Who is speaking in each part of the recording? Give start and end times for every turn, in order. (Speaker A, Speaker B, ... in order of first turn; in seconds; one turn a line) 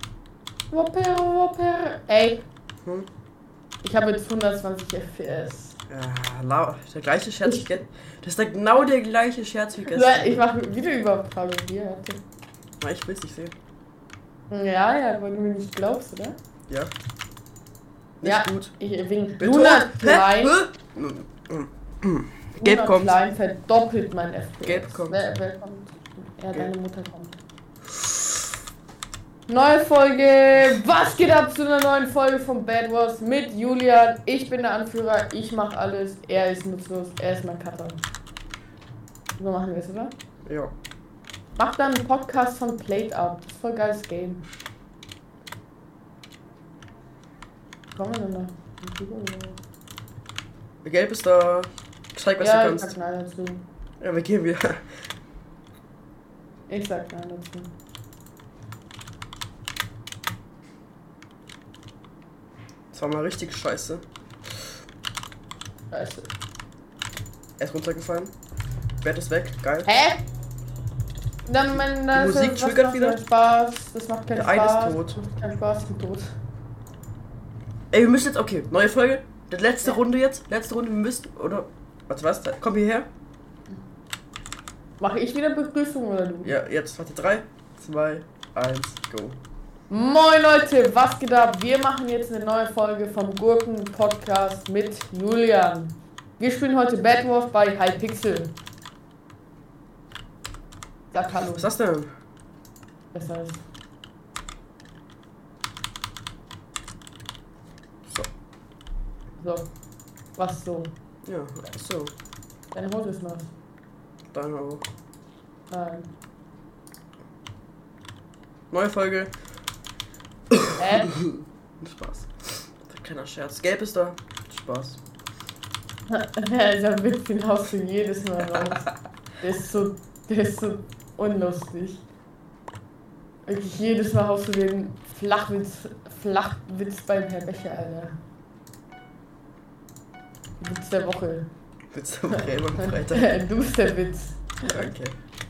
Speaker A: 0.7-2.4
Speaker A: 3.8-5.8
Speaker B: 5.9-10.4
Speaker A: 7.4-7.7
Speaker A: 9.8-12.2
Speaker B: 12.8-13.5
Speaker A: 14.5-16.4
Speaker B: 18.2-18.7
Speaker A: 18.2-20.6
Speaker B: 19.4-23.1
Speaker A: 22.6-27.4
Speaker B: 24.6-25.2
Speaker A: 29.5-38.0
Speaker A: 39.4-40.1
Speaker B: 40.5-40.7
Speaker A: 41.5-44.4
Speaker A: 47.9-49.6
Speaker B: 50.8-52.9
Speaker A: 52.4-53.6
Speaker B: 54.0-54.8
Speaker A: 56.7-57.7
Speaker B: 62.9-64.0
Speaker A: 65.9-66.3
Speaker B: 67.6-68.3
Speaker B: 69.0-69.9
Speaker A: 69.9-70.2
Speaker A: 71.5-76.3
Speaker B: 71.7-73.2
Speaker B: 74.3-75.2
Speaker B: 77.9-83.1
Speaker A: 85.0-86.5
Speaker B: 86.4-89.4
Speaker A: 89.9-98.5
Speaker A: 101.1-101.7
Speaker B: 101.5-102.1
Speaker A: 103.1-103.6
Speaker A: 109.4-109.7
Speaker A: 110.4-110.9
Speaker B: 111.2-112.1
Speaker A: 112.7-113.5
Speaker B: 114.3-114.8
Speaker A: 115.7-116.1
Speaker B: 118.7-119.3
Speaker B: 120.5-125.0
Speaker A: 120.8-121.1
Speaker A: 126.1-128.9
Speaker A: 129.4-132.1
Speaker A: 133.4-138.2
Speaker A: 140.6-141.5
Speaker B: 141.9-143.3
Speaker A: 142.3-144.8
Speaker B: 144.7-145.2